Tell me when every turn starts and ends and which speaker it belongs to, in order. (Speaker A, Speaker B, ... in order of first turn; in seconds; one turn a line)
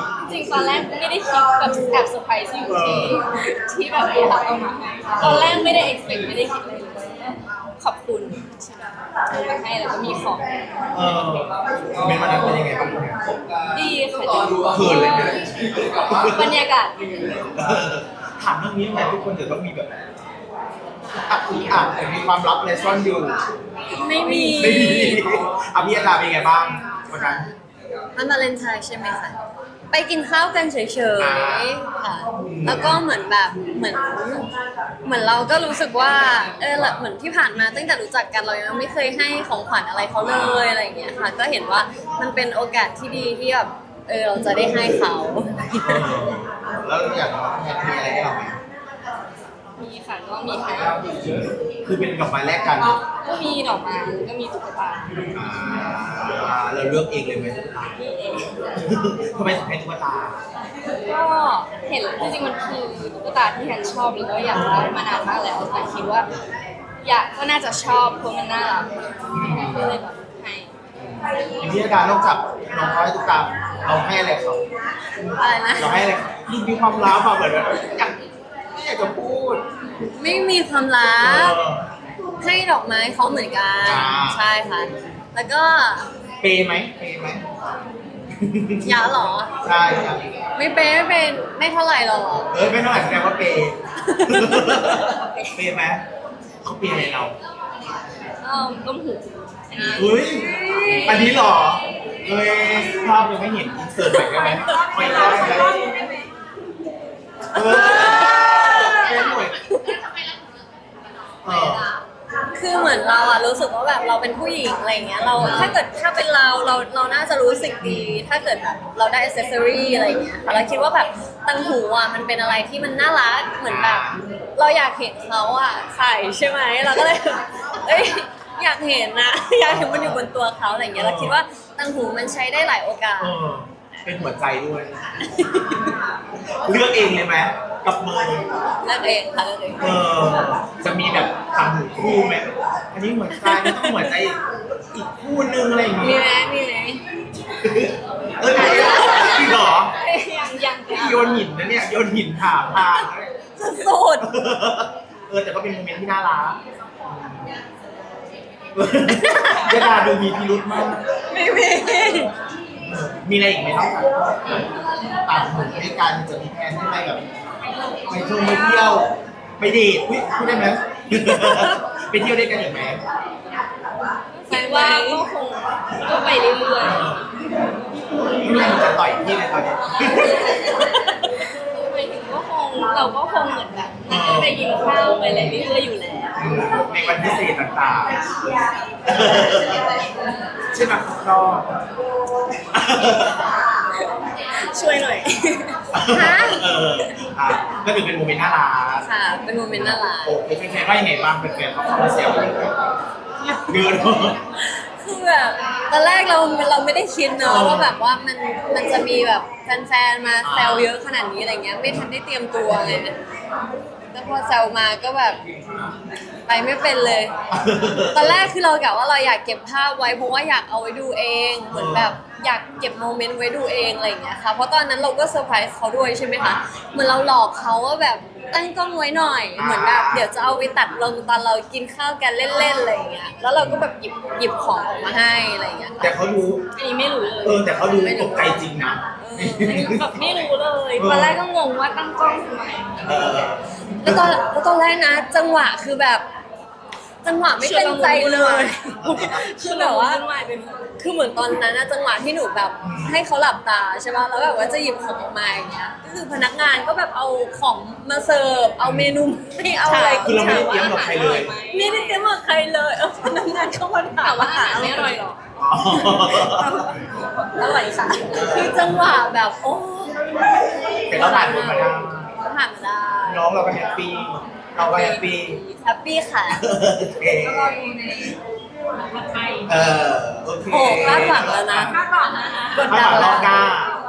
Speaker A: 0.2-8.5
Speaker B: 2.7-3.2
Speaker B: 5.2-5.7
Speaker A: 9.3-10.4
Speaker B: 10.9-13.2
Speaker A: 13.7-15.5
Speaker B: 14.7-15.4
Speaker A: 16.0-17.5
Speaker B: 16.1-16.5
Speaker B: 17.6-19.9
Speaker B: 21.3-23.4
Speaker C: 23.9-25.2
Speaker A: 24.3-24.9
Speaker B: 24.4-27.4
Speaker C: 27.1-27.5
Speaker C: 28.1-29.4
Speaker C: 29.9-34.4
Speaker B: 31.2-31.7
Speaker B: 32.6-33.0
Speaker C: 35.0-46.1
Speaker B: 40.2-40.7
Speaker B: 45.8-48.5
Speaker A: 49.8-51.0
Speaker B: 51.9-53.0
Speaker A: 53.2-55.2
Speaker B: 55.3-58.0
Speaker A: 58.0-58.5
Speaker B: 58.8-60.4
Speaker A: 61.1-66.3
Speaker B: 64.5-65.0
Speaker A: 67.0-70.7
Speaker B: 69.3-70.0
Speaker B: 71.0-74.6
Speaker C: 75.3-75.9
Speaker B: 75.8-78.2
Speaker B: 78.7-79.6
Speaker C: 80.2-81.6
Speaker B: 81.2-81.8
Speaker C: 82.4-86.1
Speaker B: 83.8-84.4
Speaker B: 86.4-87.4
Speaker B: 88.4-89.0
Speaker C: 88.8-89.5
Speaker B: 89.6-90.4
Speaker C: 90.5-92.5
Speaker B: 92.5-96.0
Speaker C: 94.1-94.7
Speaker A: 94.8-95.6
Speaker B: 96.6-97.3
Speaker A: 98.4-101.2
Speaker B: 99.9-105.8
Speaker C: 100.2-101.3
Speaker A: 104.2-105.9
Speaker C: 104.7-105.7
Speaker D: 105.0-106.3
Speaker B: 107.5-109.6
Speaker C: 107.5-110.0
Speaker D: 108.4-112.0
Speaker B: 111.4-111.8
Speaker C: 112.5-133.3
Speaker B: 115.3-115.8
Speaker B: 117.8-118.2
Speaker B: 123.6-124.2
Speaker B: 129.7-130.2
Speaker B: 130.9-131.4
Speaker B: 133.2-135.0
Speaker C: 135.3-135.8
Speaker B: 136.6-138.5
Speaker C: 138.8-140.0
Speaker B: 139.8-144.4
Speaker C: 143.3-144.1
Speaker B: 144.9-146.2
Speaker C: 146.0-147.0
Speaker B: 147.6-149.9
Speaker A: 148.5-151.5
Speaker C: 148.6-149.4
Speaker B: 150.9-153.3
Speaker C: 153.6-154.2
Speaker B: 154.2-157.4
Speaker B: 158.7-161.0
Speaker C: 159.1-159.8
Speaker C: 161.3-162.3
Speaker B: 162.8-167.2
Speaker A: 167.8-169.1
Speaker B: 168.1-173.0
Speaker C: 171.1-171.8
Speaker A: 174.3-177.1
Speaker C: 174.5-175.2
Speaker B: 176.8-177.2
Speaker B: 178.0-180.4
Speaker A: 180.2-180.8
Speaker C: 180.7-181.2
Speaker A: 181.5-186.3
Speaker B: 184.1-184.6
Speaker B: 185.3-185.6
Speaker B: 186.4-188.2
Speaker B: 189.1-189.9
Speaker B: 190.7-191.7
Speaker B: 192.7-193.5
Speaker A: 194.6-195.8
Speaker B: 195.9-199.1
Speaker C: 196.1-196.7
Speaker C: 199.0-200.4
Speaker B: 199.7-202.8
Speaker B: 203.7-204.4
Speaker C: 204.6-213.1
Speaker B: 207.4-207.9
Speaker B: 210.4-210.9
Speaker C: 214.1-215.4
Speaker C: 216.5-217.3
Speaker B: 217.5-218.5
Speaker C: 218.1-236.1
Speaker B: 221.7-222.1
Speaker B: 229.6-230.3
Speaker B: 233.6-233.9
Speaker B: 236.0-236.6
Speaker A: 236.7-237.7
Speaker B: 237.4-240.2
Speaker C: 237.9-238.6
Speaker C: 239.2-240.5
Speaker A: 239.7-243.5
Speaker B: 241.0-241.4
Speaker B: 243.0-244.3
Speaker C: 244.0-246.2
Speaker C: 247.2-250.2
Speaker A: 247.6-250.8
Speaker B: 249.0-249.4
Speaker C: 251.0-261.0
Speaker B: 252.8-253.2
Speaker B: 258.8-259.1
Speaker A: 259.8-262.2
Speaker B: 260.2-261.5
Speaker C: 261.7-265.1
Speaker A: 264.2-268.4
Speaker B: 265.6-266.9
Speaker B: 268.3-268.9
Speaker C: 268.3-273.5
Speaker B: 271.1-272.3
Speaker B: 273.3-275.6
Speaker A: 274.8-275.8
Speaker C: 275.8-276.6
Speaker B: 276.5-277.8
Speaker A: 277.4-278.3
Speaker D: 278.9-279.7
Speaker B: 279.7-282.0
Speaker C: 280.7-282.0
Speaker D: 281.9-283.5
Speaker C: 282.7-283.7
Speaker B: 282.9-283.9